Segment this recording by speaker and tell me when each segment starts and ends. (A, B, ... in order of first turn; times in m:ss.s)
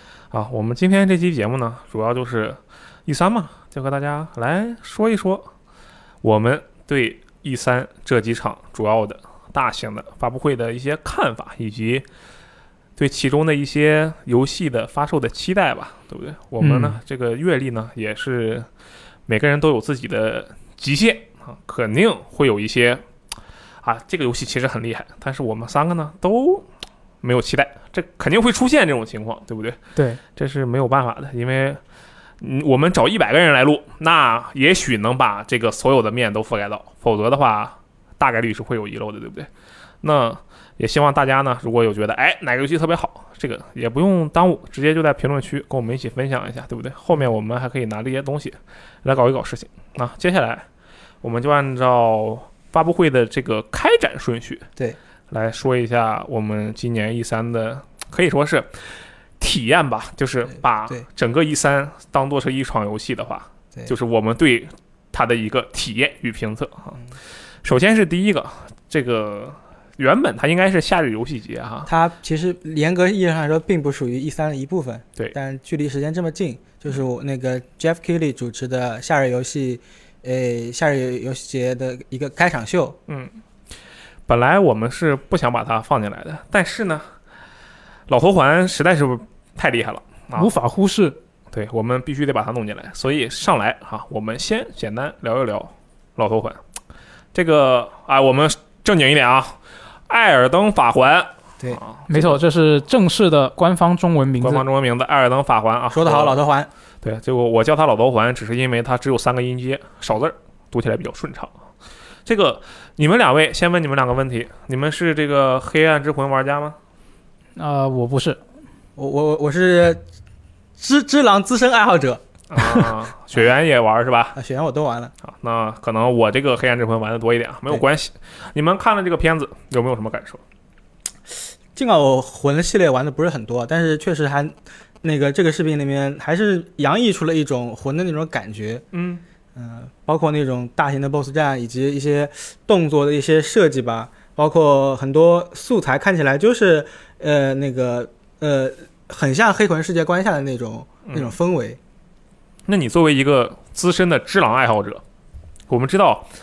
0:00.3-0:05.5 A
0:06.2-0:12.0 A
0:13.0-0:18.6 A
0:16.6-0:17.0 B
0:19.3-0:23.0 A
0:23.8-0:26.6 A
0:27.2-0:29.8 A
0:30.4-0:31.8 A
0:32.4-0:39.5 A
0:40.0-0:50.6 A
0:51.2-0:54.6 A
0:55.3-0:58.7 A
0:59.4-1:07.0 A
1:07.6-1:11.9 A
1:11.8-1:23.0 C
1:24.3-1:27.0 A
1:28.1-1:30.5 A
1:30.3-1:31.2 B
1:31.5-1:36.6 A
1:37.3-1:39.6 A
1:40.1-1:42.4 A
1:42.1-1:44.6 B
1:44.4-1:46.4 A
1:45.9-1:46.7 C
1:47.0-1:51.5 A
1:52.2-1:56.8 A
1:57.6-1:58.4 B
1:59.0-2:00.0 C
2:00.8-2:03.4 C
2:02.5-2:04.4 A
2:04.3-2:05.1 C
2:05.2-2:10.4 A
2:11.8-2:18.8 C
2:18.9-2:19.2 A
2:19.5-2:31.8 C
2:31.0-2:31.3 A
2:32.7-2:35.0 A
2:35.7-2:36.2 A